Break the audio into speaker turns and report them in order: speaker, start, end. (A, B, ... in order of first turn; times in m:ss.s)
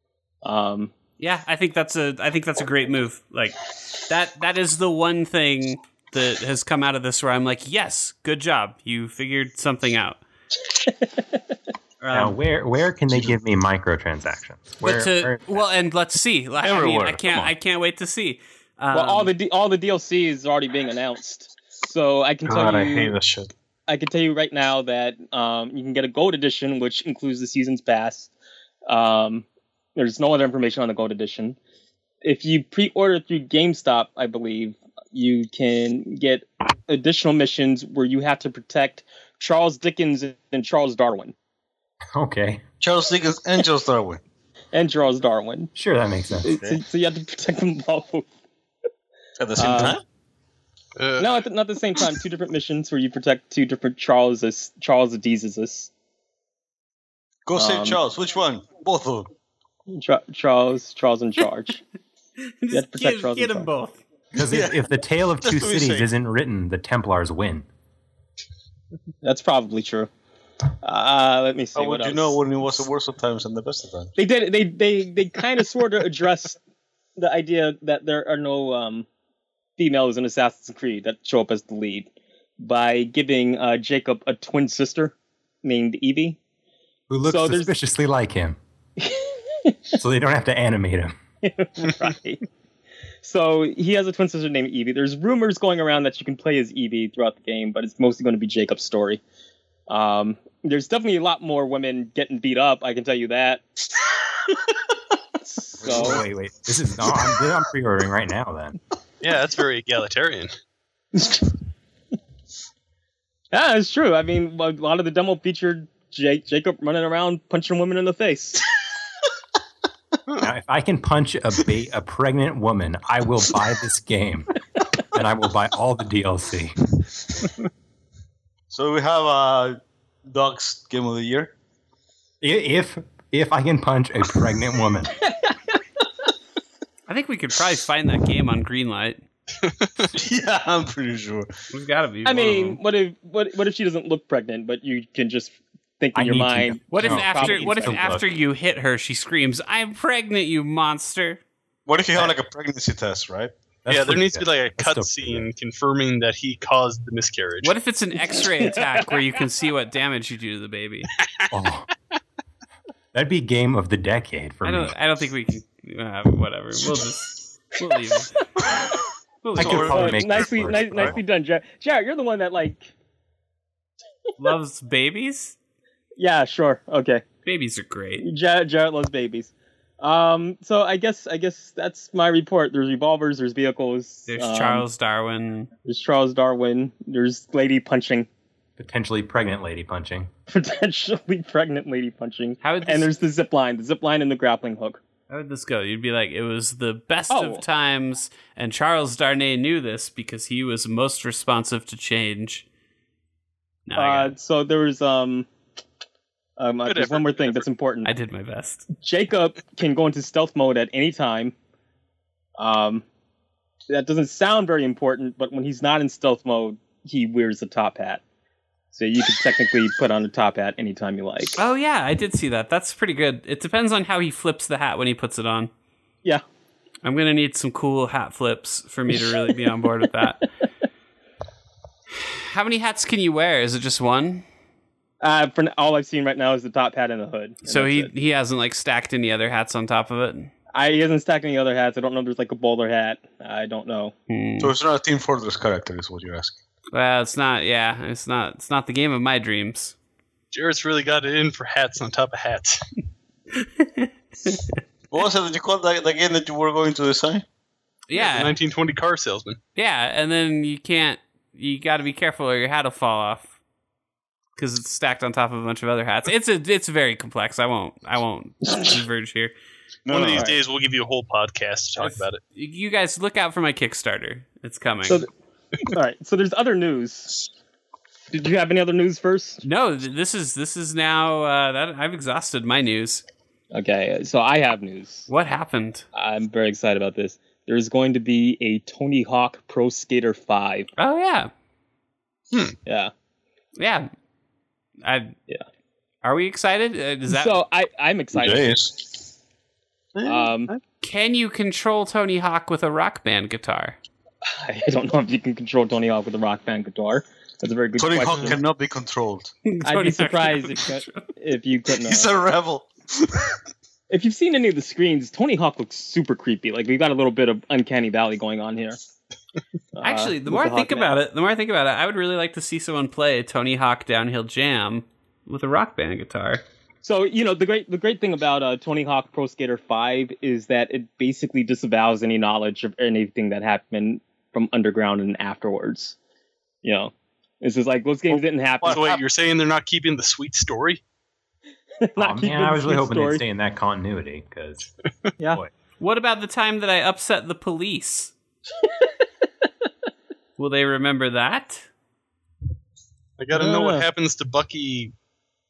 0:00.4-0:00.9 A
0:01.2-0:10.2 B
0:10.8-0:11.2 A
0:12.0-0:12.4 B
0:12.1-0:15.6 C
0:14.8-0:19.3 B
0:16.6-0:17.5 D
0:18.9-0:23.1 A
0:22.4-0:23.5 D
0:23.9-0:28.3 A
0:28.9-0:31.6 A
0:32.2-0:41.3 A
0:42.1-0:42.6 C
0:42.8-0:44.2 D
0:44.7-0:45.7 A
0:45.8-0:46.6 C
0:46.4-0:48.2 A
0:46.4-0:46.8 D
0:49.4-0:50.0 D
0:49.6-0:50.0 A
0:51.0-0:51.3 E
0:51.2-0:55.9 A
0:57.4-0:59.3 D
0:57.5-0:58.0 A
0:59.9-1:01.8 A
1:02.4-1:04.0 B
1:02.7-1:03.7 A
1:04.4-1:07.6 C
1:04.4-1:04.8 D
1:05.4-1:06.1 D
1:09.2-1:10.1 A
1:10.8-1:12.4 A
1:11.8-1:14.1 D
1:14.2-1:16.6 A
1:17.2-1:19.0 A
1:19.8-1:26.4 A
1:27.1-1:28.6 C
1:27.2-1:27.7 A
1:29.0-1:29.9 A
1:30.0-1:31.1 C
1:31.4-1:32.4 A
1:33.2-1:39.2 A
1:39.9-1:43.6 A
1:45.4-1:46.2 A
1:45.8-1:46.2 D
1:45.8-1:48.8 C
1:49.2-1:50.5 E
1:51.1-1:51.5 A
1:53.5-1:58.6 A
2:00.4-2:04.6 C
2:05.1-2:06.7 C
2:08.7-2:11.5 D
2:12.4-2:15.2 C
2:17.1-2:19.2 B
2:19.6-2:20.1 E
2:20.1-2:21.5 D
2:21.7-2:22.8 B
2:22.2-2:28.1 A
2:26.1-2:28.2 C
2:26.9-2:31.4 B
2:31.9-2:33.5 D
2:33.8-2:35.5 C
2:33.9-2:37.8 E
2:37.6-2:41.1 B
2:41.5-2:41.9 C
2:43.1-2:44.9 C
2:44.6-2:48.4 B
2:49.4-2:49.9 B
2:49.5-2:51.0 D
2:49.6-2:51.2 C
2:49.7-2:52.9 A
2:54.4-2:55.5 B
2:56.2-2:57.2 A
2:57.4-2:58.2 B
2:58.2-3:04.8 A
3:04.3-3:05.7 B
3:05.8-3:08.3 A
3:08.8-3:10.3 C
3:10.5-3:15.0 A
3:12.6-3:13.1 B
3:15.3-3:22.6 B
3:17.3-3:17.6 A
3:23.9-3:24.3 B
3:24.0-3:25.5 A
3:26.6-3:28.1 A
3:26.8-3:27.6 E
3:28.0-3:28.9 B
3:29.0-3:31.5 A
3:32.6-3:33.0 A
3:33.9-3:38.2 A
3:38.9-3:41.6 A
3:41.6-3:45.7 B
3:47.0-3:50.4 B
3:52.4-3:54.4 B
3:55.2-3:58.1 A
3:57.6-4:00.5 B
4:00.7-4:04.1 A
4:04.3-4:04.7 B
4:04.6-4:06.6 D
4:06.9-4:09.9 B
4:10.5-4:12.8 E
4:13.6-4:14.7 B
4:15.1-4:17.4 D
4:18.1-4:18.6 B
4:18.1-4:19.6 E
4:19.8-4:23.5 B
4:24.6-4:29.5 B
4:30.0-4:30.5 D
4:30.1-4:32.4 E
4:30.3-4:30.6 A
4:32.0-4:35.2 B
4:35.8-4:37.5 A
4:38.3-4:39.6 A
4:39.6-4:43.2 B
4:43.7-4:45.3 A
4:45.3-4:46.0 B
4:46.1-4:50.9 A
4:51.0-4:51.5 B
4:52.8-4:53.1 A
4:53.8-4:54.1 B
4:55.0-4:55.4 B
4:56.2-4:57.6 B
4:57.3-4:58.8 A
4:58.3-4:59.1 D
5:00.2-5:00.8 D
5:00.2-5:00.7 A
5:01.0-5:04.0 B
5:04.4-5:08.6 A
5:08.0-5:09.5 D
5:09.6-5:11.3 B
5:09.8-5:12.3 A
5:12.0-5:13.6 D
5:14.1-5:19.0 A
5:19.9-5:21.1 A
5:20.0-5:26.6 B
5:27.0-5:36.2 A
5:36.8-5:39.0 A
5:38.3-5:39.2 D
5:38.9-5:41.0 E
5:42.0-5:43.4 A
5:42.2-5:44.9 C
5:46.0-5:48.3 B
5:50.6-5:51.8 B
5:53.4-5:55.1 E
5:53.5-5:54.1 A